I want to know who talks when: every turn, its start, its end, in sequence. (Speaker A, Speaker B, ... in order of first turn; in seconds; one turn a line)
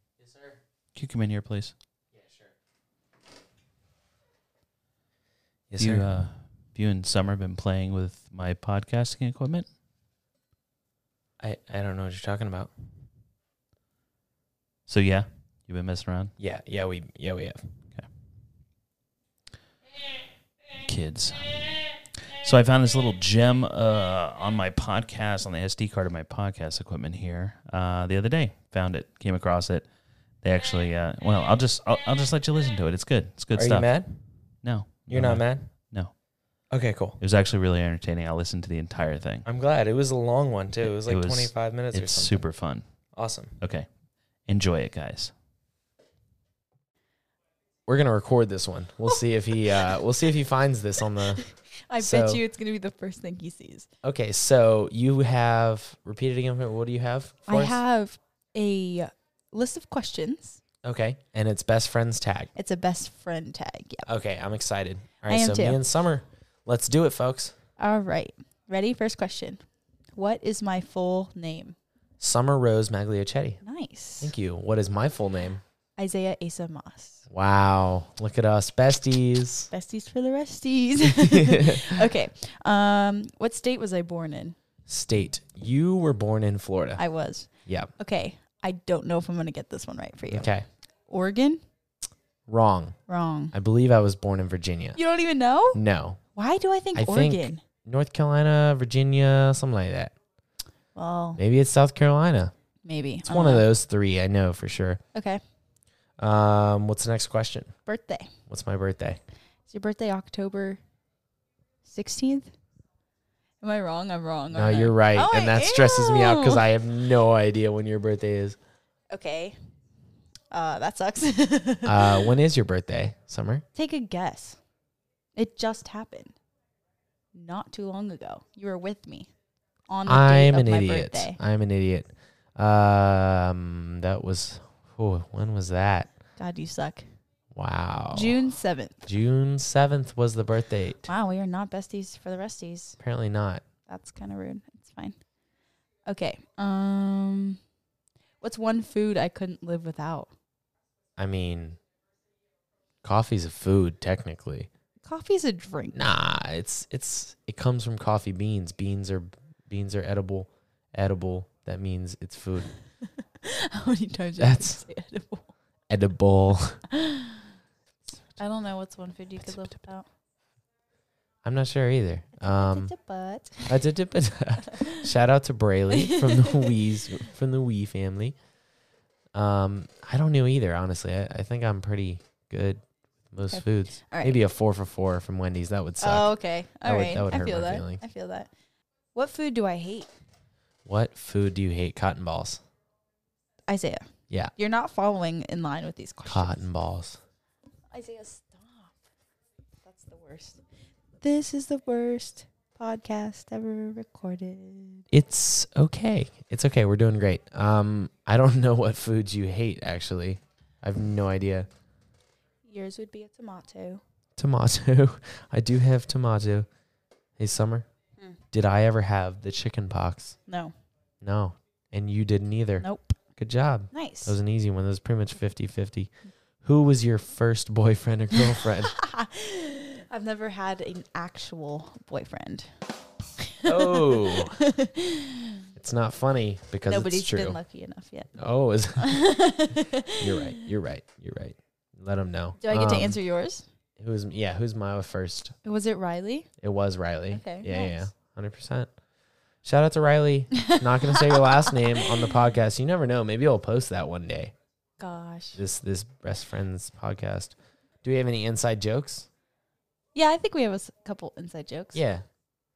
Speaker A: 0.2-0.5
Speaker B: 0.9-1.7
Speaker A: 2.1-2.5
Speaker A: 5.7-6.1
Speaker B: 5.8-9.7
Speaker A: 11.4-12.7
Speaker B: 14.9-16.3
Speaker A: 16.4-17.6
Speaker B: 20.7-29.9
Speaker B: 30.4-36.1
Speaker A: 33.5-34.2
Speaker A: 35.1-35.7
Speaker A: 36.7-37.2
Speaker B: 37.2-39.5
Speaker A: 39.4-42.5
Speaker B: 40.8-42.9
Speaker A: 43.1-43.6
Speaker B: 43.6-43.9
Speaker B: 44.4-45.3
Speaker A: 47.9-51.4
Speaker C: 51.1-53.9
Speaker A: 52.0-52.4
Speaker A: 54.0-57.8
Speaker C: 57.5-60.6
Speaker A: 60.8-62.5
Speaker C: 62.5-64.0
Speaker A: 64.0-67.5
Speaker C: 65.3-65.8
Speaker C: 67.8-69.6
Speaker C: 70.1-71.8
Speaker A: 72.2-73.6
Speaker C: 73.6-74.3
Speaker A: 74.2-75.6
Speaker C: 76.0-77.2
Speaker A: 77.3-79.7
Speaker C: 79.7-84.5
Speaker A: 84.8-87.0
Speaker C: 87.0-90.5
Speaker A: 87.6-87.9
Speaker A: 90.3-90.7
Speaker C: 91.1-91.6
Speaker A: 92.5-93.0
Speaker C: 93.1-93.5
Speaker A: 93.5-95.0
Speaker C: 95.0-95.8
Speaker A: 95.7-96.2
Speaker C: 96.3-97.6
Speaker A: 96.9-100.1
Speaker C: 100.9-101.4
Speaker A: 101.3-102.5
Speaker C: 102.8-103.7
Speaker A: 103.2-105.0
Speaker C: 105.1-105.4
Speaker A: 106.2-107.7
Speaker C: 107.8-108.3
Speaker A: 108.5-109.2
Speaker C: 109.7-110.8
Speaker C: 111.8-112.5
Speaker C: 113.6-116.6
Speaker A: 114.5-118.6
Speaker C: 119.1-119.5
Speaker C: 120.5-122.3
Speaker A: 121.8-123.6
Speaker C: 123.7-124.6
Speaker C: 125.3-126.3
Speaker C: 127.3-129.3
Speaker C: 129.9-131.4
Speaker A: 130.0-136.1
Speaker C: 136.4-137.1
Speaker A: 137.5-138.4
Speaker C: 138.1-139.1
Speaker A: 139.1-141.1
Speaker C: 141.1-143.0
Speaker A: 143.0-143.6
Speaker C: 143.9-145.2
Speaker C: 146.1-147.6
Speaker C: 148.4-150.3
Speaker A: 151.2-151.8
Speaker A: 153.0-154.7
Speaker C: 155.0-156.0
Speaker A: 155.9-162.7
Speaker C: 163.4-165.5
Speaker A: 164.4-164.8
Speaker A: 165.9-166.8
Speaker C: 166.9-167.4
Speaker C: 168.4-170.1
Speaker A: 171.4-172.9
Speaker C: 172.4-173.8
Speaker A: 173.7-178.3
Speaker C: 175.9-176.8
Speaker A: 179.3-188.0
Speaker C: 183.5-184.4
Speaker C: 186.0-188.5
Speaker C: 189.1-190.1
Speaker A: 190.8-192.6
Speaker C: 193.7-196.6
Speaker A: 196.2-197.2
Speaker C: 197.9-199.0
Speaker C: 199.8-200.6
Speaker C: 201.2-205.1
Speaker A: 205.1-211.7
Speaker C: 212.6-214.0
Speaker A: 214.3-216.7
Speaker A: 217.4-217.8
Speaker A: 218.5-220.4
Speaker C: 220.5-220.7
Speaker A: 221.2-222.8
Speaker C: 222.8-223.1
Speaker A: 223.4-228.9
Speaker C: 223.9-224.3
Speaker C: 228.9-232.7
Speaker C: 233.5-235.6
Speaker A: 233.6-234.6
Speaker A: 235.8-237.6
Speaker C: 236.8-238.3
Speaker A: 238.3-239.3
Speaker C: 238.9-240.6
Speaker A: 240.2-243.2
Speaker C: 242.6-243.7
Speaker A: 244.0-245.5
Speaker C: 245.6-246.5
Speaker A: 246.6-248.9
Speaker C: 247.3-248.1
Speaker A: 249.6-254.5
Speaker C: 250.6-252.1
Speaker C: 255.0-255.6
Speaker A: 255.6-259.3
Speaker C: 260.1-262.0
Speaker A: 261.9-262.2